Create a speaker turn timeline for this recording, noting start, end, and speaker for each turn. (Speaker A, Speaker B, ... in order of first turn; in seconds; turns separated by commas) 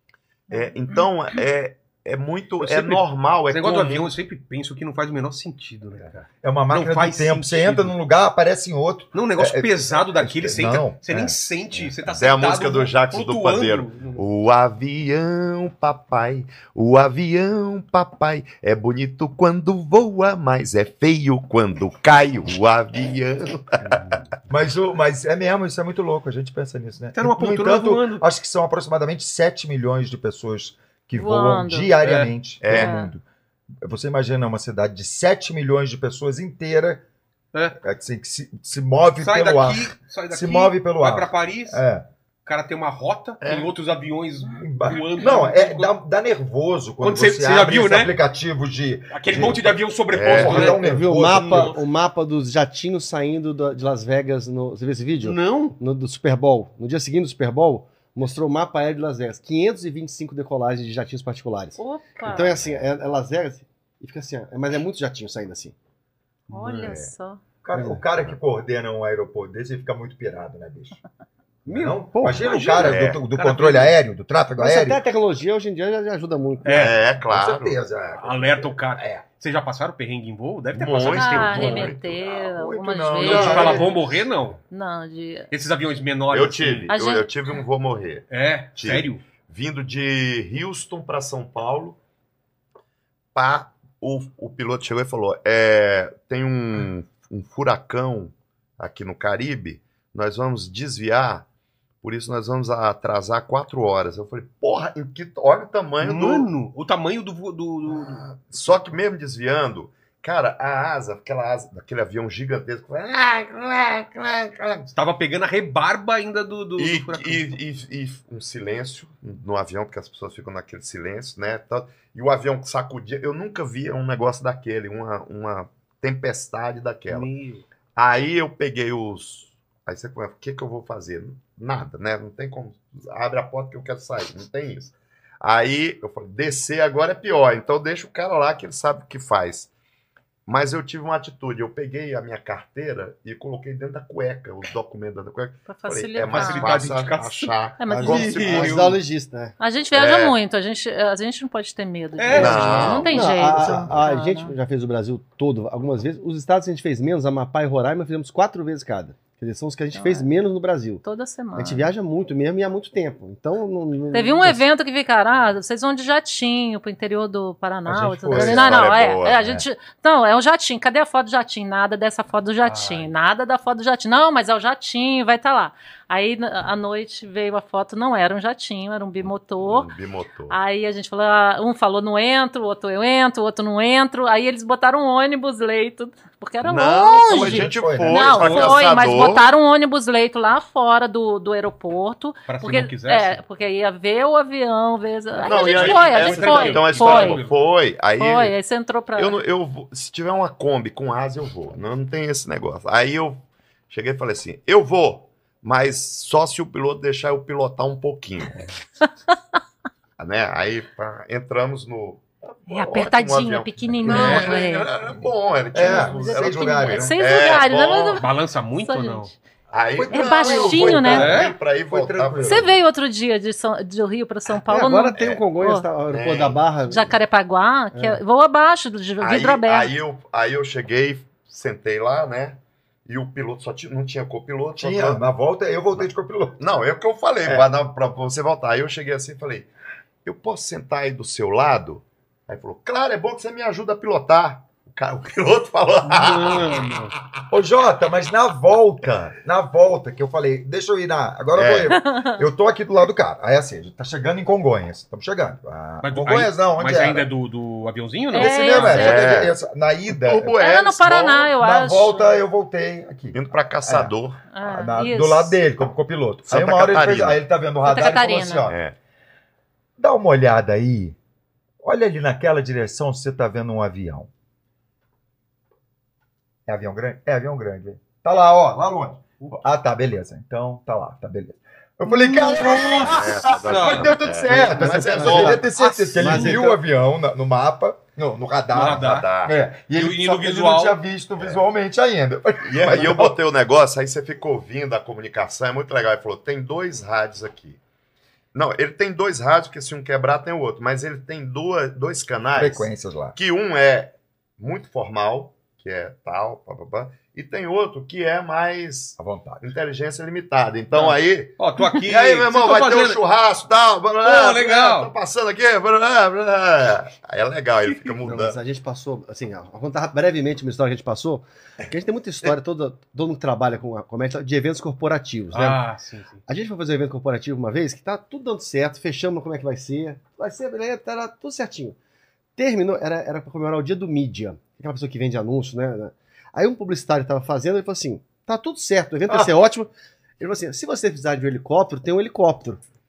Speaker A: 0.5-4.1, Speaker B: 2.6-7.9, Speaker C: 6.4-11.4, Speaker B: 9.1-14.2, Speaker A: 12.1-24.0, Speaker C: 24.5-33.2, Speaker B: 27.1-28.2, Speaker D: 31.1-32.0, Speaker B: 32.0-32.3, Speaker A: 32.6-33.0, Speaker D: 32.7-33.1, Speaker C: 33.8-37.0, Speaker C: 37.8-42.0, Speaker B: 39.2-41.8, Speaker B: 42.4-45.9, Speaker A: 43.4-43.7, Speaker C: 44.6-51.7, Speaker B: 47.0-48.1, Speaker B: 49.1-51.8, Speaker A: 50.1-50.8, Speaker E: 50.6-65.7, Speaker B: 55.2-55.8, Speaker D: 61.8-62.5, Speaker A: 62.3-62.8, Speaker D: 66.5-67.4, Speaker C: 67.6-71.0, Speaker E: 67.7-68.0, Speaker C: 71.7-75.0, Speaker E: 71.7-72.4, Speaker B: 71.7-74.0, Speaker A: 72.8-73.2, Speaker E: 74.6-76.8, Speaker B: 76.6-77.0, Speaker A: 76.7-77.8, Speaker C: 76.8-79.2, Speaker B: 78.2-82.0, Speaker A: 80.7-83.9, Speaker D: 81.1-83.8, Speaker B: 83.2-84.6, Speaker C: 83.2-83.7, Speaker E: 83.3-83.8, Speaker D: 84.7-85.5, Speaker B: 85.5-86.9, Speaker A: 86.3-92.0, Speaker D: 86.9-87.3, Speaker B: 88.3-89.2, Speaker A: 93.3-101.5, Speaker A: 102.0-106.5, Speaker B: 106.0-108.3, Speaker A: 107.9-114.9, Speaker B: 114.9-117.5, Speaker A: 116.8-127.3, Speaker B: 127.1-127.6, Speaker A: 128.0-139.7, Speaker A: 140.4-149.0, Speaker D: 145.7-146.9, Speaker B: 146.3-149.0, Speaker D: 147.8-148.3, Speaker E: 147.8-149.5, Speaker D: 149.6-154.5, Speaker A: 149.9-150.3, Speaker B: 152.2-153.3, Speaker A: 152.3-153.2, Speaker E: 152.3-161.0, Speaker D: 159.9-160.3, Speaker D: 161.0-161.9, Speaker E: 161.5-164.6, Speaker D: 164.1-179.9, Speaker A: 168.2-169.6, Speaker E: 168.3-168.7, Speaker B: 172.6-173.1, Speaker A: 179.6-180.6, Speaker D: 180.5-197.4, Speaker A: 186.6-189.5, Speaker C: 187.3-188.8, Speaker B: 188.3-188.8, Speaker B: 192.5-193.4, Speaker B: 195.4-197.6, Speaker A: 195.4-198.6, Speaker D: 198.2-199.4, Speaker A: 199.2-208.7, Speaker A: 210.2-218.2, Speaker D: 212.7-214.9, Speaker C: 214.0-214.5, Speaker B: 214.1-214.5, Speaker C: 215.1-217.2, Speaker D: 215.8-218.3, Speaker B: 218.2-219.3, Speaker D: 218.8-219.4, Speaker A: 219.7-222.7, Speaker C: 219.9-222.7, Speaker D: 220.1-221.4, Speaker B: 221.1-221.5, Speaker D: 222.4-225.8, Speaker E: 224.7-227.2, Speaker A: 225.2-225.4, Speaker A: 226.1-226.6, Speaker D: 226.9-229.9, Speaker A: 229.2-235.2, Speaker C: 234.8-236.6, Speaker A: 236.6-239.7, Speaker A: 240.2-246.9, Speaker B: 246.1-247.1, Speaker C: 247.5-257.3, Speaker A: 251.5-251.9, Speaker D: 251.9-252.4, Speaker B: 256.0-258.9, Speaker D: 258.3-259.3, Speaker C: 258.3-260.6, Speaker A: 258.7-259.6, Speaker A: 260.1-261.6, Speaker D: 260.6-262.4, Speaker C: 261.6-268.8, Speaker A: 263.3-264.4, Speaker D: 264.5-265.6, Speaker A: 266.5-267.4, Speaker D: 267.8-268.7, Speaker A: 268.6-268.9, Speaker C: 270.0-271.2, Speaker C: 271.8-274.3, Speaker C: 276.6-293.4, Speaker B: 282.1-284.3, Speaker A: 283.0-285.6, Speaker E: 284.5-286.8, Speaker B: 285.4-286.6, Speaker B: 288.7-289.3, Speaker A: 288.8-289.6, Speaker B: 289.9-291.0, Speaker A: 292.6-297.8, Speaker A: 298.5-318.6, Speaker C: 302.5-303.4, Speaker C: 309.2-309.6, Speaker B: 310.9-313.2, Speaker B: 314.2-315.1, Speaker E: 318.2-325.8, Speaker B: 325.5-326.4, Speaker E: 326.5-331.9, Speaker E: 332.6-342.8